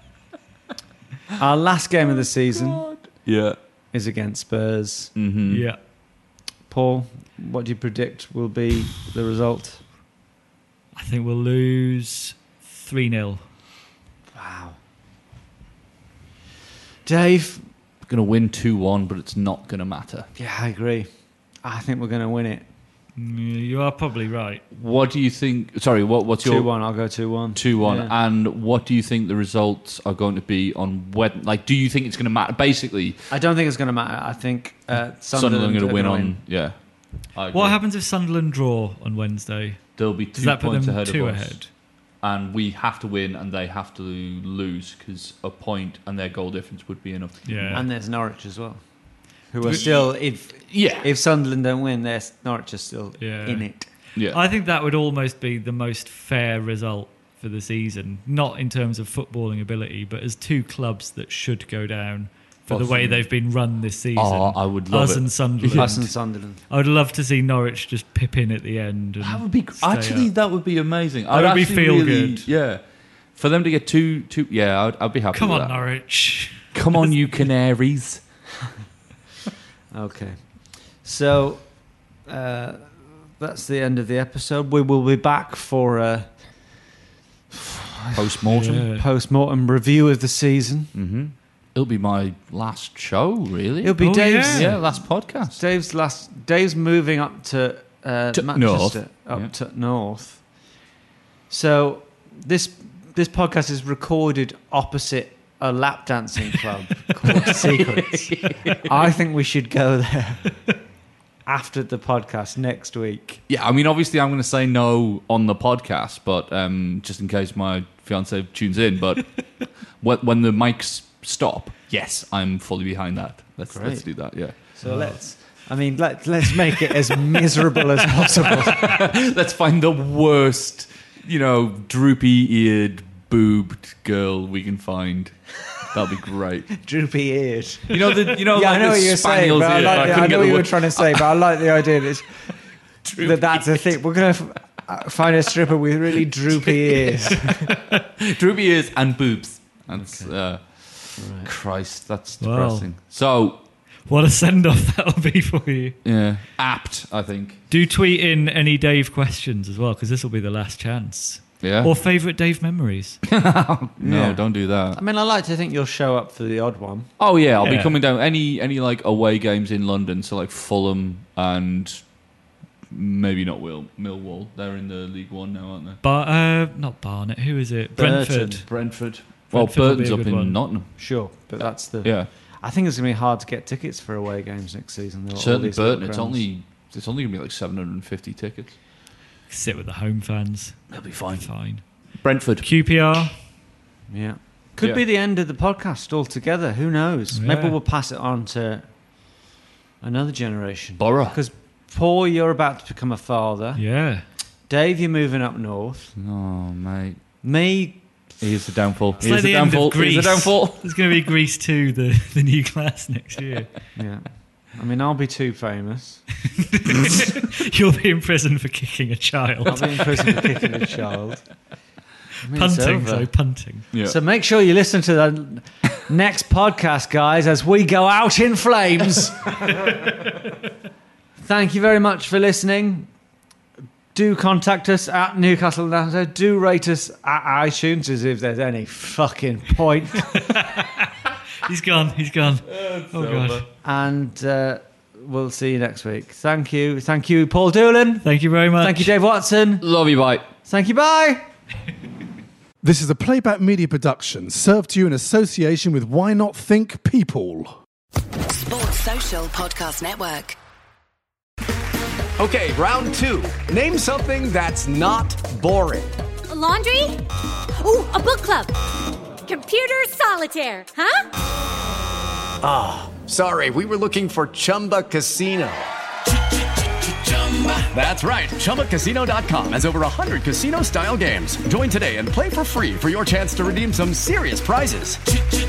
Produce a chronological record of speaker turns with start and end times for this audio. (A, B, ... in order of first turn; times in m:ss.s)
0:01.4-0:02.9 A
0:02.2-0:03.6 B
0:03.9-0:05.1 A
0:05.2-0:05.7 B
0:05.5-0:05.8 C
0:06.7-0:09.8 A
0:11.0-0:13.4 C
0:14.3-0:14.8 A
0:17.0-0:17.6 A
0:18.1-0:20.3 B
0:20.4-0:21.1 A
0:21.6-0:22.6 A
0:23.2-0:24.6 C
0:24.7-0:33.2 B
0:26.4-0:28.1 A
0:33.3-0:36.4 A
0:35.3-0:37.8 B
0:37.5-0:41.7 C
0:40.0-0:41.6 B
0:42.2-0:47.8 B
0:47.4-0:47.9 C
0:47.7-0:48.8 A
0:49.5-0:53.9 A
0:49.7-0:50.1 B
0:50.7-0:51.1 B
0:53.2-0:53.7 C
0:54.3-1:10.3 C
1:02.7-1:03.2 B
1:04.2-1:06.0 B
1:05.8-1:06.6 A
1:09.2-1:12.8 B
1:11.3-1:12.5 C
1:13.4-1:15.8 B
1:15.3-1:17.1 C
1:16.7-1:18.2 B
1:19.9-1:21.7 A
1:22.2-1:26.8 A
1:27.5-1:30.9 A
1:28.1-1:28.8 B
1:28.5-1:29.0 C
1:30.9-1:35.6 B
1:33.8-1:40.4 A
1:34.0-1:34.8 C
1:38.3-1:39.5 B
1:41.5-1:50.6 A
1:47.3-1:48.8 B
1:51.5-1:53.4 A
1:53.5-2:04.8 B
2:03.7-2:08.9 A
2:04.8-2:05.2 C
2:08.8-2:16.7 B
2:16.8-2:22.5 A
2:17.9-2:21.4 B
2:23.0-2:27.7 A
2:23.1-2:23.8 B
2:27.1-2:33.6 B
2:30.0-2:30.3 A
2:31.2-2:31.5 A
2:32.4-2:32.9 C
2:34.1-2:36.0 C
2:36.0-2:37.6 B
2:37.7-2:43.2 C
2:41.6-2:41.9 B
2:43.3-2:45.0 B
2:44.0-2:47.1 A
2:47.2-2:52.0 B
2:47.6-2:48.0 C
2:52.9-2:56.0 B
2:56.0-2:58.7 C
2:58.0-2:58.5 A
2:58.4-3:00.9 B
2:59.5-3:00.6 C
3:01.0-3:06.4 A
3:01.6-3:02.3 B
3:05.4-3:08.8 B
3:09.5-3:11.9 C
3:10.9-3:11.5 B
3:12.2-3:12.7 B
3:12.6-3:13.4 C
3:14.1-3:18.9 A
3:17.3-3:17.8 C
3:20.0-3:23.8 A
3:21.0-3:21.4 B
3:23.8-3:24.3 C
3:24.7-3:26.1 A
3:26.2-3:27.2 B
3:27.4-3:28.0 A
3:28.4-3:31.0 B
3:29.2-3:33.9 C
3:34.0-3:36.3 A
3:36.6-3:40.8 C
3:39.7-3:41.5 A
3:42.4-3:43.3 A
3:42.5-3:43.8 C
3:43.9-3:44.2 B
3:44.0-3:50.3 A
3:51.4-3:53.1 A
3:54.1-4:00.4 A
4:00.3-4:01.1 C
4:01.6-4:03.6 C
4:02.7-4:03.7 B
4:03.8-4:09.9 A
4:08.2-4:09.1 C
4:09.8-4:10.5 B
4:10.6-4:11.5 A
4:12.8-4:17.8 D
4:18.5-4:20.6 E
4:22.4-4:26.2 F
4:26.5-4:27.2 G
4:27.8-4:28.7 G
4:29.4-4:31.2 G
4:32.6-4:35.9 F
4:37.3-4:37.8 E
4:37.8-4:45.2 F